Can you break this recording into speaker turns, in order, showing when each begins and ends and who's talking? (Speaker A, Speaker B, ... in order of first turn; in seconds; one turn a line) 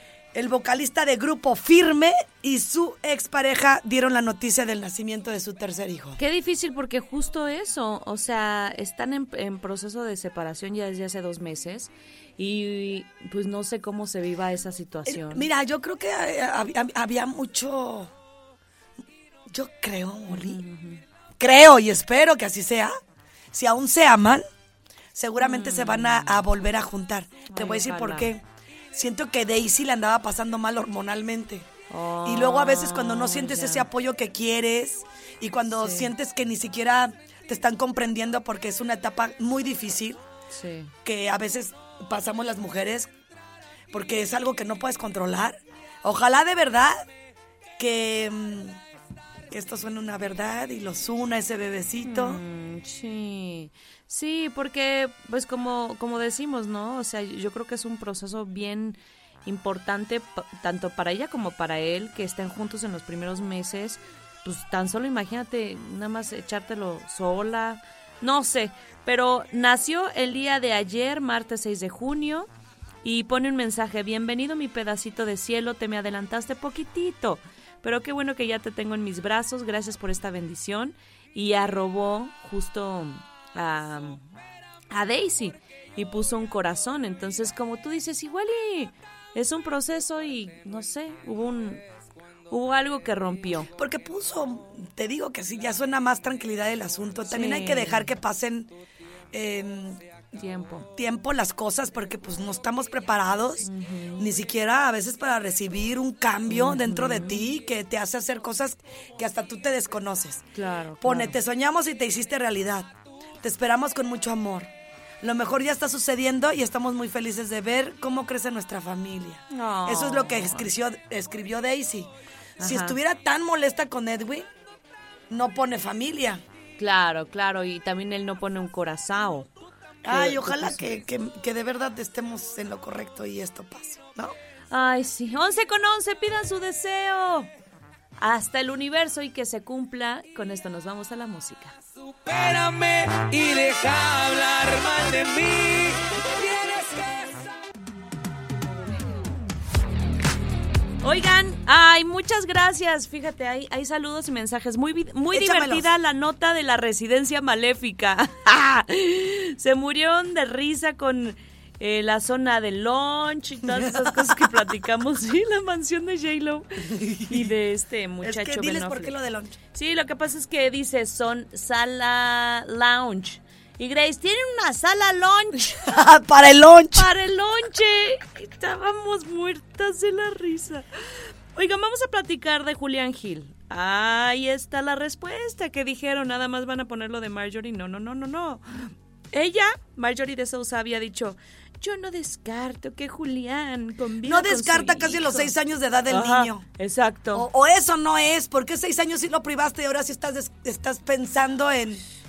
Speaker A: 0.3-6.2
Speaker B: 6.2-15.5
Speaker A: 15.1-18.1
Speaker A: 19.5-20.6
Speaker B: 20.3-21.0
Speaker A: 21.4-22.9
Speaker A: 23.5-24.4
Speaker A: 25.1-31.7
Speaker B: 25.4-26.4
Speaker B: 27.5-28.3
Speaker B: 31.9-33.9
Speaker A: 32.2-40.2
Speaker B: 35.8-36.1
Speaker B: 40.5-40.9
Speaker A: 41.0-43.1
Speaker A: 43.9-47.0
Speaker A: 47.8-48.8
Speaker A: 49.5-52.4
Speaker B: 52.0-72.5
Speaker B: 73.0-84.2
Speaker B: 84.9-91.8
Speaker B: 92.5-93.7
Speaker A: 93.8-98.7
Speaker B: 97.3-98.1
Speaker A: 99.3-100.0
Speaker B: 100.4-100.9
Speaker A: 100.9-110.5
Speaker B: 103.6-104.3
Speaker B: 106.5-107.4
Speaker B: 110.5-111.4
Speaker A: 111.0-112.9
Speaker A: 113.4-124.5
Speaker B: 119.5-120.7
Speaker B: 122.6-123.0
Speaker A: 125.3-126.4
Speaker B: 126.8-129.5
Speaker A: 130.0-134.3
Speaker B: 130.1-130.9
Speaker B: 134.7-137.5
Speaker B: 138.2-141.8
Speaker C: 142.1-147.3
Speaker B: 151.0-169.2
Speaker A: 155.3-155.9
Speaker A: 163.7-164.4
Speaker A: 166.8-167.5
Speaker A: 168.2-169.6
Speaker B: 169.7-175.9
Speaker A: 175.8-177.1
Speaker B: 176.9-180.9
Speaker B: 181.6-195.5
Speaker A: 194.2-196.7
Speaker B: 196.1-197.5
Speaker A: 197.3-202.0